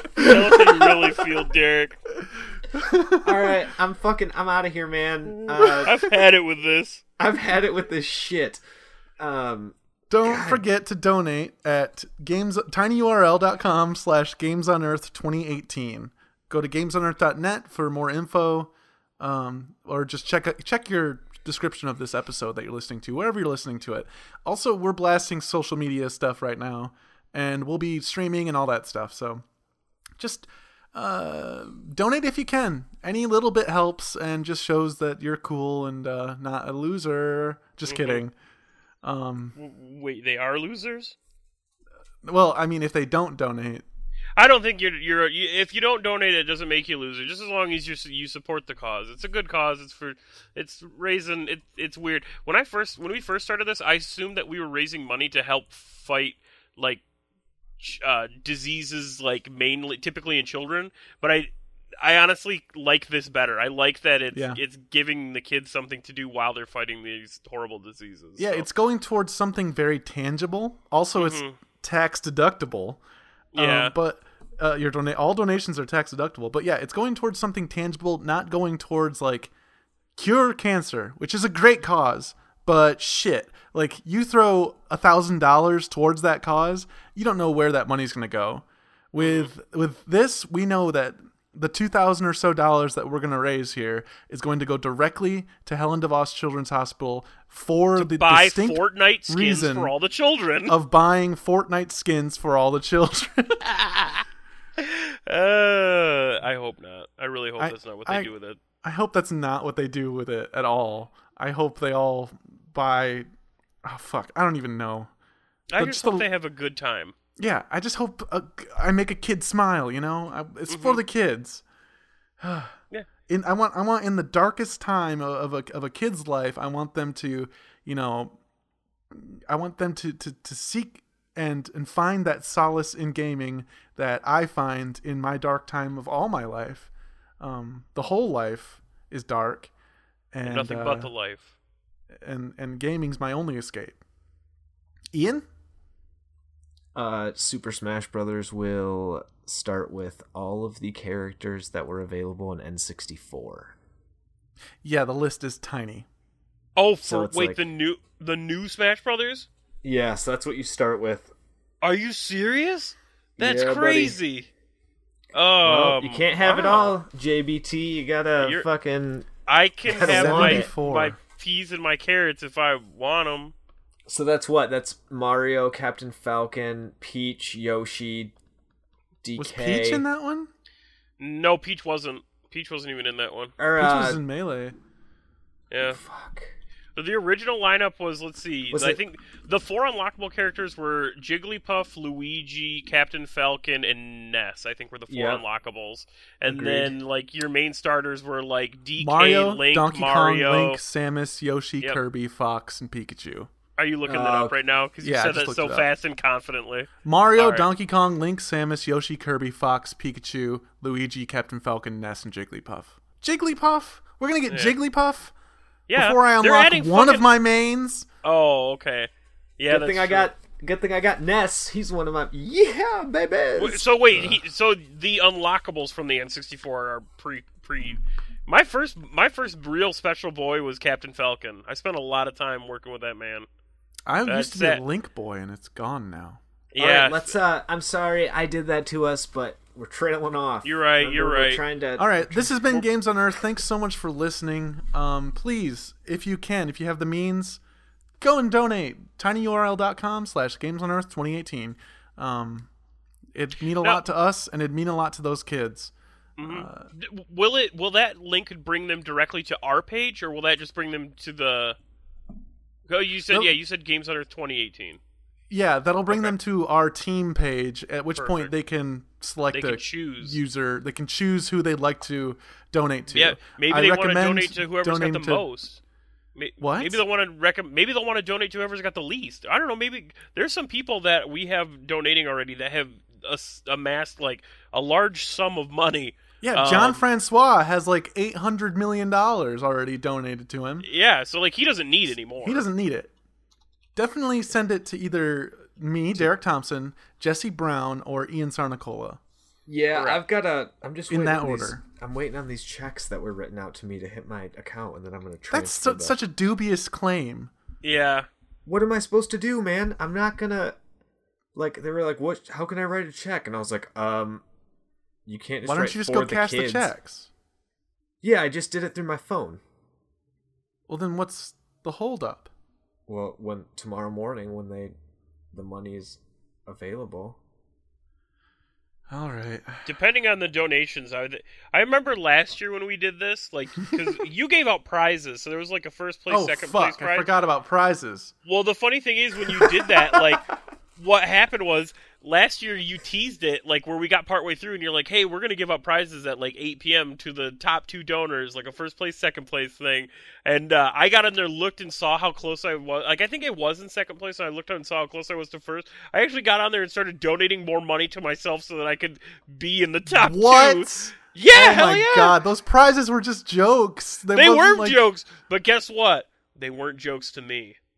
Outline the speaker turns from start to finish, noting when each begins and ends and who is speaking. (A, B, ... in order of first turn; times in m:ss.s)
0:00.1-0:01.1 A
0:00.2-0:02.0 B
0:02.7-0:03.5 A
0:03.2-0:06.1 C
0:05.7-0:07.0 B
0:07.2-0:08.6 C
0:09.2-0:10.6 C
0:10.1-0:29.4 A
0:30.2-0:38.3 A
0:37.8-0:38.2 B
0:39.0-0:39.5 A
0:39.5-0:41.2 B
0:42.2-0:43.8 A
0:44.4-0:57.0 B
0:57.8-1:01.5 B
1:02.0-1:08.7 B
1:04.3-1:04.6 A
1:08.4-1:13.0 A
1:11.2-1:11.6 B
1:13.5-1:13.9 B
1:13.6-1:19.5 A
1:20.2-1:39.9 A
1:29.2-1:29.5 B
1:38.0-1:40.7 B
1:40.7-1:43.7 A
1:44.8-1:48.6 B
1:47.6-1:48.3 A
1:48.8-1:53.3 A
1:53.8-1:55.1 A
1:55.7-1:57.1 B
1:55.8-1:56.3 A
1:57.4-2:01.6 A
2:00.7-2:01.0 B
2:02.4-2:02.8 A
2:03.3-2:08.4 A
2:09.1-2:19.7 A
2:20.3-2:21.1 A
2:20.4-2:21.5 B
2:22.2-2:24.0 A
2:25.1-2:25.4 A
2:26.9-2:33.7 C
2:34.8-2:36.0 A
2:36.8-2:39.5 B
2:37.0-2:37.6 C
2:39.8-2:41.3 C
2:41.8-2:44.5 B
2:43.4-2:44.2 C
2:45.3-2:47.0 B
2:45.6-2:49.3 C
2:48.4-2:48.6 B
2:49.5-2:53.5 B
2:49.9-2:50.7 C
2:50.0-2:51.2 A
2:54.1-2:58.3 C
2:59.2-3:00.0 C
2:59.4-3:00.5 A
3:01.2-3:03.5 B
3:03.6-3:04.2 C
3:03.8-3:04.7 A
3:05.7-3:06.0 B
3:05.8-3:06.5 C
3:07.0-3:20.8 B
3:08.7-3:09.0 C
3:15.1-3:15.4 C
3:16.5-3:17.0 C
3:19.0-3:23.5 A
3:23.8-3:27.7 B
3:24.0-3:24.6 C
3:25.0-3:25.9 A
3:27.0-3:35.3 A
3:34.5-3:34.8 B
3:35.9-3:37.3 B
3:35.9-3:38.1 A
3:38.2-3:40.3 B
3:39.7-3:43.9 C
3:43.6-3:53.5 B
3:44.1-3:44.4 A
3:54.0-3:56.4 A
3:54.2-3:54.8 B
3:56.7-3:57.4 B
3:56.8-4:02.5 C
4:00.6-4:01.6 B
4:02.0-4:07.6 A
4:08.2-4:12.7 A
4:13.3-4:16.9 A
4:16.4-4:21.8 B
4:22.9-4:25.0 B
4:25.5-4:35.5 A
4:26.1-4:26.3 B
4:28.1-4:28.5 B
4:29.5-4:30.4 B
4:33.1-4:35.8 B
4:36.4-4:47.0 B
4:36.6-4:37.0 A
4:46.4-4:50.9 A
4:50.8-4:52.6 B
4:52.4-4:53.1 A
4:54.0-4:59.2 A
4:59.7-5:06.2 C
4:59.9-5:00.2 B
5:01.1-5:01.8 A
5:05.5-5:07.5 A
5:07.8-5:08.3 B
5:08.6-5:10.8 C
5:11.5-5:14.4 C
5:15.2-5:16.9 C
5:15.6-5:17.3 A
5:18.2-5:19.6 C
5:20.9-5:22.5 A
5:23.1-5:24.9 C
5:25.5-5:27.4 C
5:29.1-5:29.8 A
5:29.8-5:37.3 B
5:36.3-5:38.3 A
5:38.4-5:40.4 B
5:39.4-5:40.4 A
5:41.0-6:02.4 B
6:00.1-6:05.0 A
6:04.3-6:07.8 B